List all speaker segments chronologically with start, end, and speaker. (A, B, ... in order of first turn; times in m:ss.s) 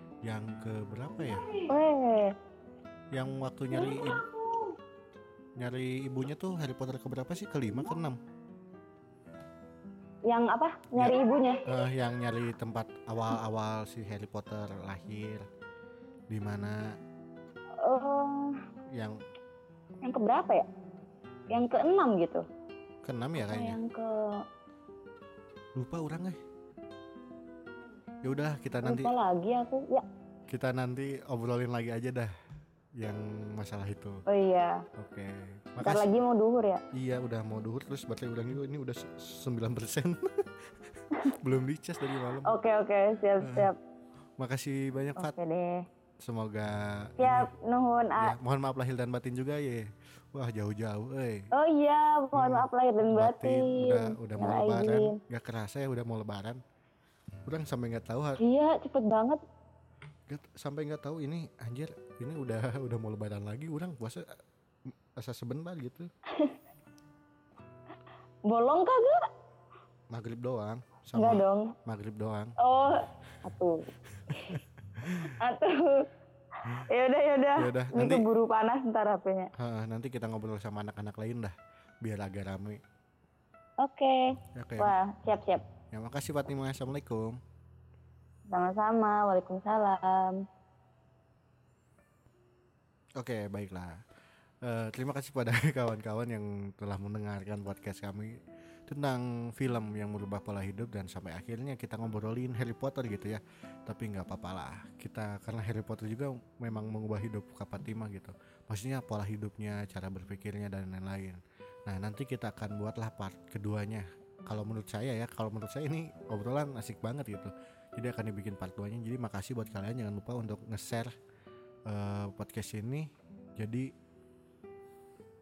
0:00.2-0:01.5 A
0:01.5-0:02.4 B
0:03.1-0:04.3 A
0:03.7-0:04.7 B
0:05.6-0:08.2 A
0:10.3-0:11.6 B
0:11.0-0:15.5 A
0:16.3-0:16.8 A
0:17.8-0:18.6 B
0:18.9-0:19.2 A
0:20.0-0:20.7 B
0:21.5-0:22.4 B
0:23.0-0:23.8 A
0:23.4-0:24.4 B
0:25.8-0:26.4 A
0:28.2-0:29.1 A
0:28.8-0:30.0 B
0:30.5-0:32.3 A
0:33.0-0:34.2 A
0:34.3-0:34.9 B
0:35.0-0:36.1 A
0:35.8-0:36.8 B
0:36.9-0:42.6 A
0:42.4-0:43.8 B
0:43.4-0:43.7 A
0:44.4-0:45.3 A
0:45.2-0:45.9 B
0:46.2-0:47.5 A
0:47.2-0:48.4 B
0:48.2-0:51.5 A
0:51.5-0:55.2 B
0:52.4-0:56.6 A
0:57.5-0:58.4 A
0:58.4-0:59.4 B
1:00.3-1:04.3 A
1:05.2-1:06.1 A
1:06.3-1:06.6 B
1:08.5-1:09.3 B
1:10.1-1:12.5 A
1:11.2-1:11.8 B
1:12.6-1:14.6 B
1:14.2-1:15.3 A
1:15.3-1:16.1 B
1:16.6-1:19.5 B
1:17.6-1:18.3 A
1:19.6-1:22.8 A
1:23.8-1:25.6 B
1:24.5-1:24.9 A
1:25.9-1:27.4 A
1:28.5-1:30.4 B
1:33.2-1:34.0 A
1:34.6-1:38.3 A
1:38.9-2:01.1 A
2:01.9-2:03.9 A